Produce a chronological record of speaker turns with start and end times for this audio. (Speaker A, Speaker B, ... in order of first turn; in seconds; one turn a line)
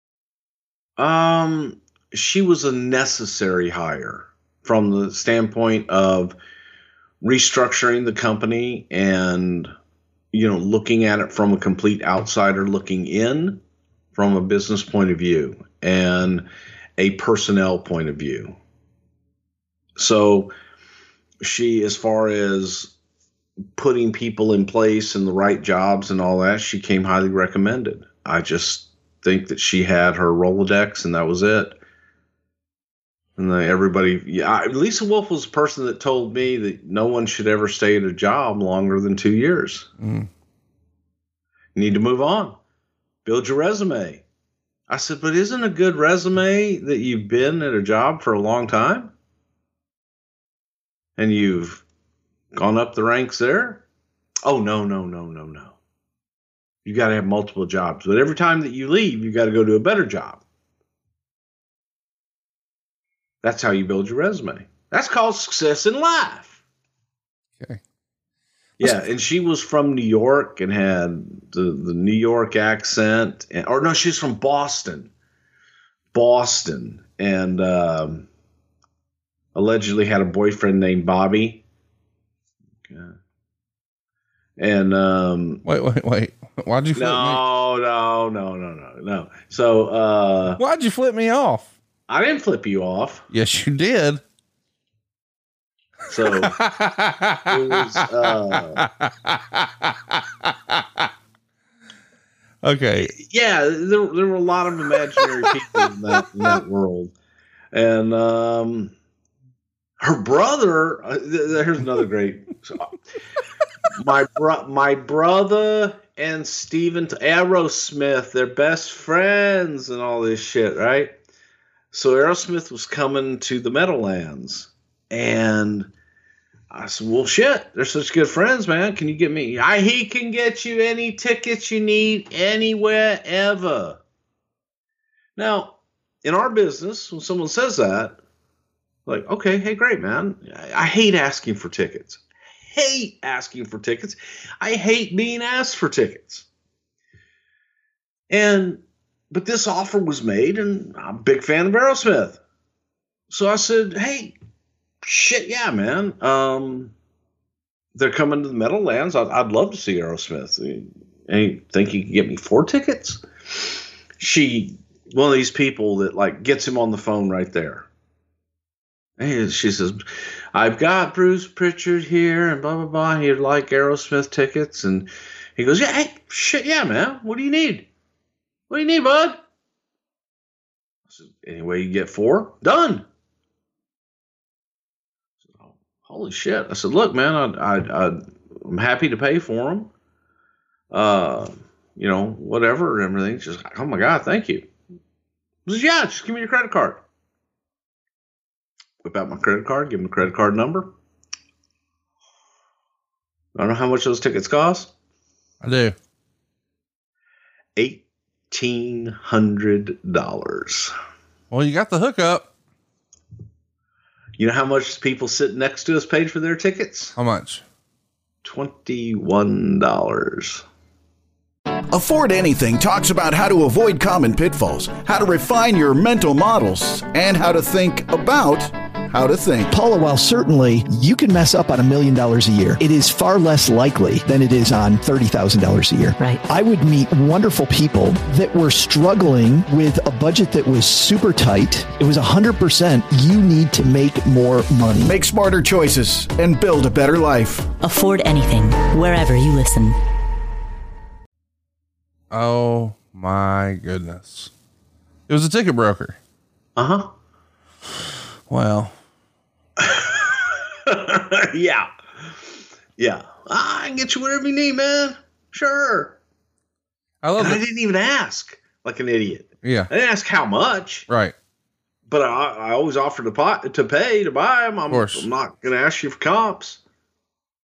Speaker A: 1.0-6.4
Speaker A: 7.2-9.7
Speaker A: 10.3-13.6
Speaker A: 14.1-16.5
Speaker A: 17.0-18.6
Speaker A: 20.0-20.5
Speaker A: 21.4-22.9
Speaker A: 23.7-31.8
Speaker A: 33.4-39.9
Speaker B: 40.0-40.3
Speaker A: 41.8-42.6
Speaker A: 43.2-44.2
Speaker A: 44.9-49.1
Speaker A: 51.2-51.8
Speaker A: 52.5-53.8
Speaker A: 54.5-55.8
Speaker A: 56.9-60.4
Speaker A: 63.4-66.6
Speaker A: 68.8-75.1
Speaker A: 76.1-78.3
Speaker A: 79.5-81.6
Speaker A: 82.9-83.2
Speaker A: 84.6-85.6
Speaker B: 85.7-87.4
Speaker A: 87.0-90.6
Speaker B: 90.6-91.7
Speaker A: 92.1-93.3
Speaker B: 93.3-94.2
Speaker A: 96.1-96.5
Speaker B: 96.2-101.1
Speaker A: 97.5-98.8
Speaker B: 102.6-103.2
Speaker A: 103.1-107.1
Speaker A: 107.7-108.9
Speaker A: 110.0-112.9
Speaker A: 113.9-121.1
Speaker A: 121.9-125.9
Speaker A: 126.7-134.0
Speaker A: 135.4-138.2
Speaker A: 139.1-146.5
Speaker A: 148.3-152.4
Speaker A: 153.3-154.4
Speaker A: 155.0-156.9
Speaker A: 157.9-167.9
Speaker A: 169.2-170.0
Speaker A: 170.5-177.9
Speaker A: 178.7-179.4
Speaker A: 181.1-183.1
Speaker A: 185.5-189.9
Speaker A: 190.9-194.7
Speaker A: 195.7-197.0
Speaker A: 199.0-200.9
Speaker A: 203.6-204.9
Speaker B: 205.6-205.9
Speaker A: 207.8-210.9
Speaker B: 211.5-212.5
Speaker A: 214.4-217.2
Speaker B: 217.2-217.6
Speaker A: 218.4-220.7
Speaker C: 221.9-229.8
Speaker D: 229.7-245.2
Speaker C: 245.1-247.7
Speaker E: 247.8-250.0
Speaker B: 252.3-254.5
Speaker B: 255.3-256.2
Speaker A: 256.8-257.1
Speaker B: 258.5-258.9
Speaker A: 259.8-261.9
Speaker A: 263.0-266.2
Speaker B: 267.2-267.6
Speaker A: 267.4-271.1
Speaker B: 269.6-269.9
Speaker B: 271.1-271.3
Speaker A: 272.1-276.8
Speaker B: 274.9-275.3